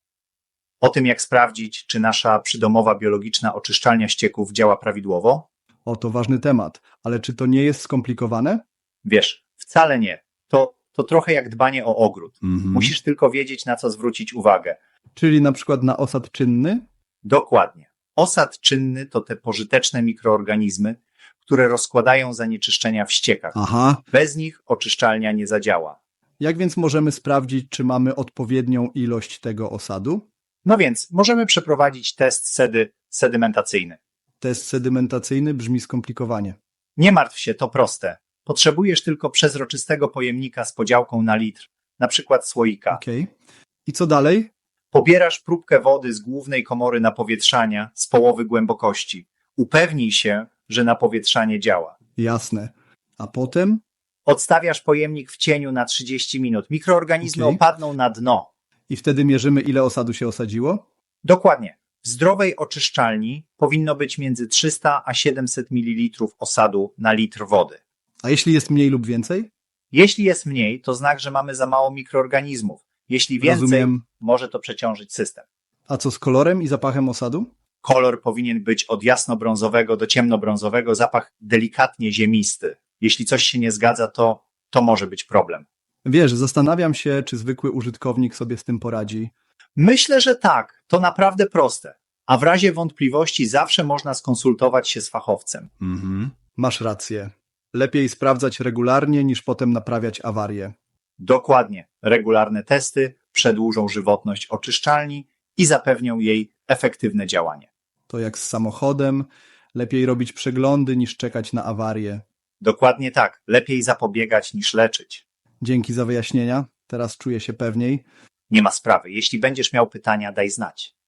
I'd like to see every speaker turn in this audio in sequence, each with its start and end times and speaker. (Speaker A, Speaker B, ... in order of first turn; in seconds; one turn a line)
Speaker A: 0.8-5.5
Speaker B: 5.9-8.6
Speaker A: 9.0-14.8
Speaker B: 12.6-12.9
Speaker B: 15.2-16.8
Speaker A: 17.2-23.6
Speaker B: 23.5-24.0
Speaker A: 24.1-26.0
Speaker B: 26.4-30.2
Speaker A: 30.6-34.0
Speaker B: 34.4-36.5
Speaker A: 37.0-43.0
Speaker B: 42.9-43.3
Speaker B: 43.9-44.5
Speaker A: 44.9-52.0
Speaker B: 52.2-53.8
Speaker A: 54.2-58.5
Speaker B: 57.2-57.6
Speaker B: 58.9-60.8
Speaker A: 61.2-67.8
Speaker B: 68.2-69.5
Speaker A: 69.9-75.5
Speaker B: 73.4-74.0
Speaker B: 75.9-77.5
Speaker A: 77.8-85.7
Speaker B: 86.0-89.3
Speaker A: 89.8-95.7
Speaker B: 95.8-100.7
Speaker A: 101.2-107.7
Speaker B: 108.1-112.2
Speaker A: 112.6-115.2
Speaker B: 115.6-118.0
Speaker A: 118.5-120.9